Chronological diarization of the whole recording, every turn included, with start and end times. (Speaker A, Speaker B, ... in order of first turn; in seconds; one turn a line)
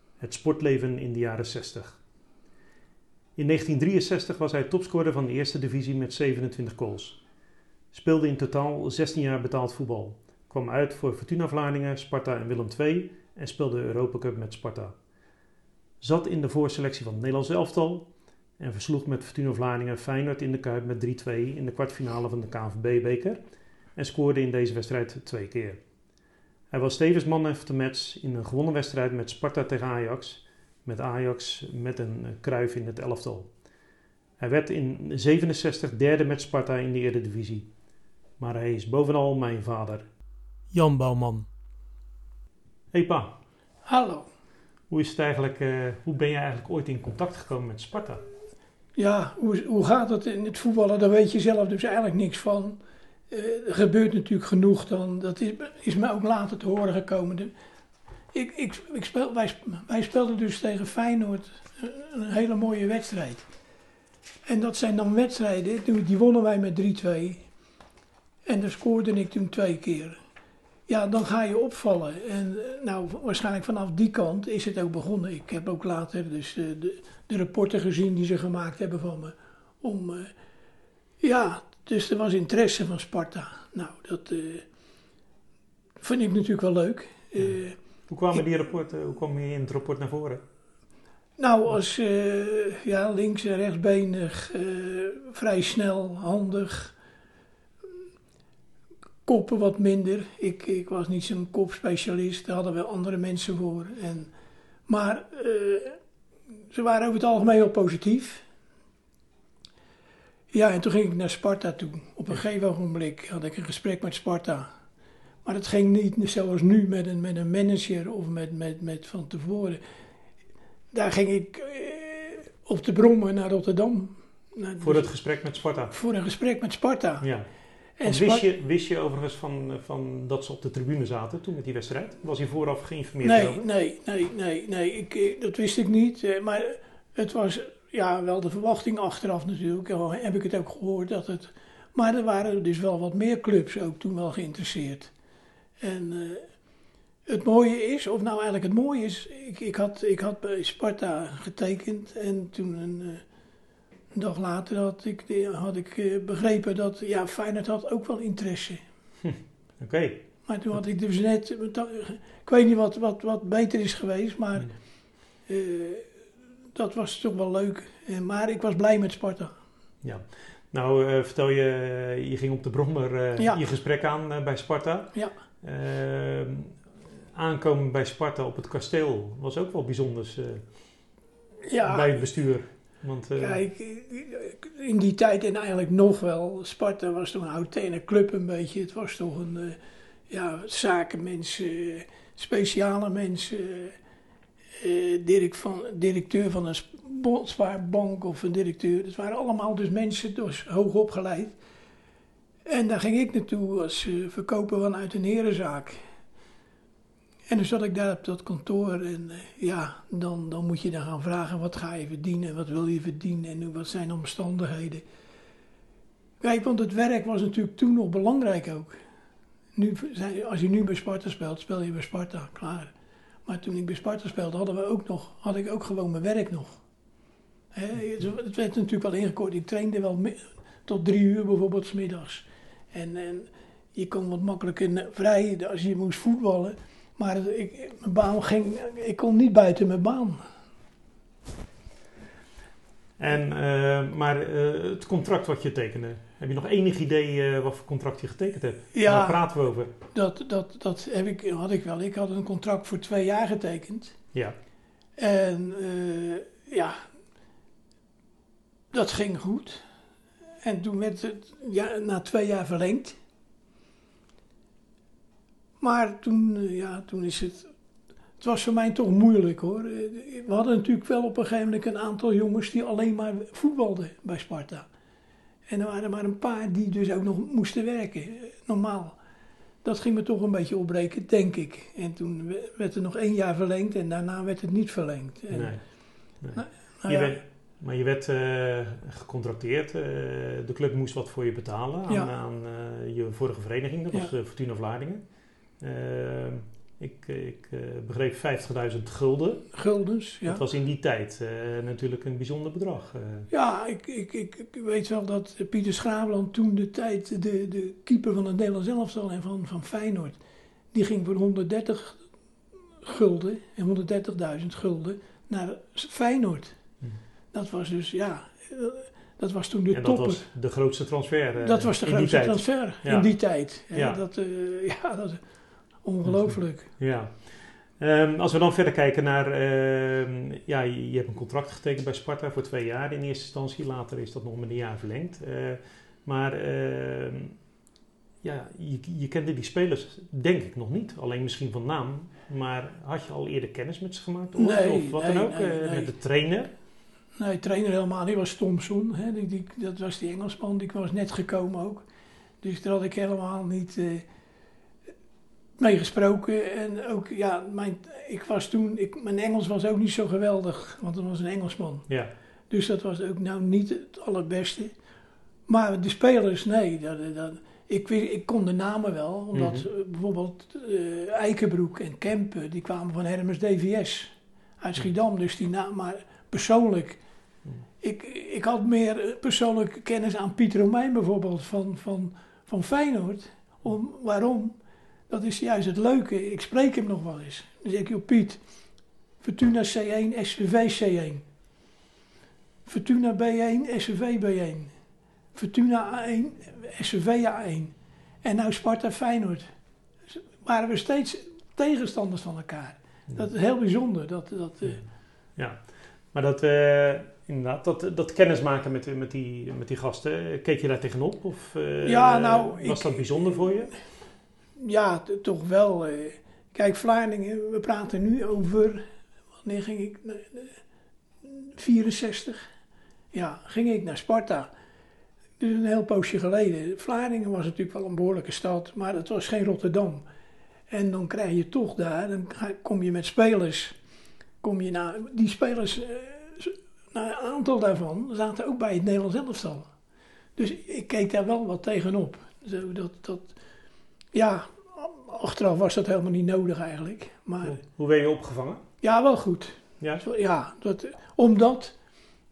Speaker A: 0.2-2.0
Speaker A: 3.4-7.2
Speaker A: 7.9-14.9
Speaker A: 16.0-23.4
Speaker A: 23.9-25.8
Speaker A: 26.7-33.5
Speaker A: 34.4-37.7
Speaker A: 38.4-40.0
Speaker A: 40.7-41.5
Speaker A: 42.9-43.4
Speaker B: 43.9-44.3
Speaker A: 44.9-48.2
Speaker B: 48.9-52.8
Speaker B: 53.3-57.5
Speaker B: 58.3-63.5
Speaker B: 64.5-67.5
Speaker B: 68.5-70.2
Speaker B: 70.9-80.3
Speaker B: 81.2-84.6
Speaker B: 86.0-87.8
Speaker A: 88.1-90.4
Speaker B: 91.4-97.0
Speaker B: 99.2-104.3
Speaker B: 104.9-106.0
Speaker B: 106.7-108.4
Speaker B: 110.5-114.7
Speaker B: 115.4-119.8
Speaker B: 120.9-125.2
Speaker A: 124.8-126.0
Speaker B: 125.9-127.3
Speaker A: 127.2-127.5
Speaker B: 128.0-128.5
Speaker A: 128.0-133.6
Speaker B: 133.2-145.1
Speaker B: 145.8-146.4
Speaker B: 147.2-153.2
Speaker B: 154.1-158.8
Speaker A: 159.2-160.2
Speaker B: 160.5-164.8
Speaker B: 165.5-166.1
Speaker B: 166.7-169.5
Speaker A: 170.0-176.8
Speaker B: 173.4-173.7
Speaker A: 177.3-180.7
Speaker B: 181.7-182.4
Speaker A: 181.8-183.6
Speaker B: 183.4-189.8
Speaker B: 190.3-193.9
Speaker B: 194.8-201.6
Speaker B: 202.7-206.0
Speaker B: 207.5-215.0
Speaker B: 216.4-218.9
Speaker B: 219.7-222.9
Speaker B: 223.4-226.8
Speaker B: 227.7-240.4
Speaker A: 243.2-249.9
Speaker B: 248.9-254.2
Speaker B: 255.2-257.0
Speaker B: 258.9-259.8
Speaker B: 260.6-263.2
Speaker B: 265.8-267.7
Speaker B: 268.4-274.9
Speaker B: 275.7-279.2
Speaker B: 279.8-285.9
Speaker A: 285.5-285.8
Speaker A: 286.4-295.2
Speaker B: 286.5-287.4
Speaker A: 295.8-299.7
Speaker B: 299.7-300.6
Speaker A: 300.4-303.5
Speaker B: 303.5-310.4
Speaker B: 310.9-312.2
Speaker B: 313.0-316.8
Speaker B: 317.5-320.5
Speaker A: 319.9-324.2
Speaker B: 321.6-325.4
Speaker B: 326.0-326.9
Speaker A: 326.2-337.6
Speaker A: 338.4-346.7
Speaker B: 344.6-346.1
Speaker B: 347.4-352.0
Speaker B: 352.6-354.2
Speaker B: 355.8-362.1
Speaker B: 362.7-364.9
Speaker B: 365.7-377.2
Speaker A: 369.5-369.9
Speaker B: 378.0-384.8
Speaker B: 385.3-388.6
Speaker B: 389.4-391.4
Speaker B: 392.9-394.9
Speaker B: 395.5-399.6
Speaker B: 400.3-405.0
Speaker A: 404.8-414.0
Speaker B: 412.0-413.9
Speaker B: 414.8-419.0
Speaker B: 419.6-420.8
Speaker B: 421.4-422.6
Speaker B: 423.3-424.7
Speaker B: 425.6-430.2
Speaker B: 430.9-433.9
Speaker B: 434.6-439.9
Speaker B: 440.6-443.5
Speaker B: 444.3-447.8
Speaker A: 447.6-448.8
Speaker B: 449.0-451.9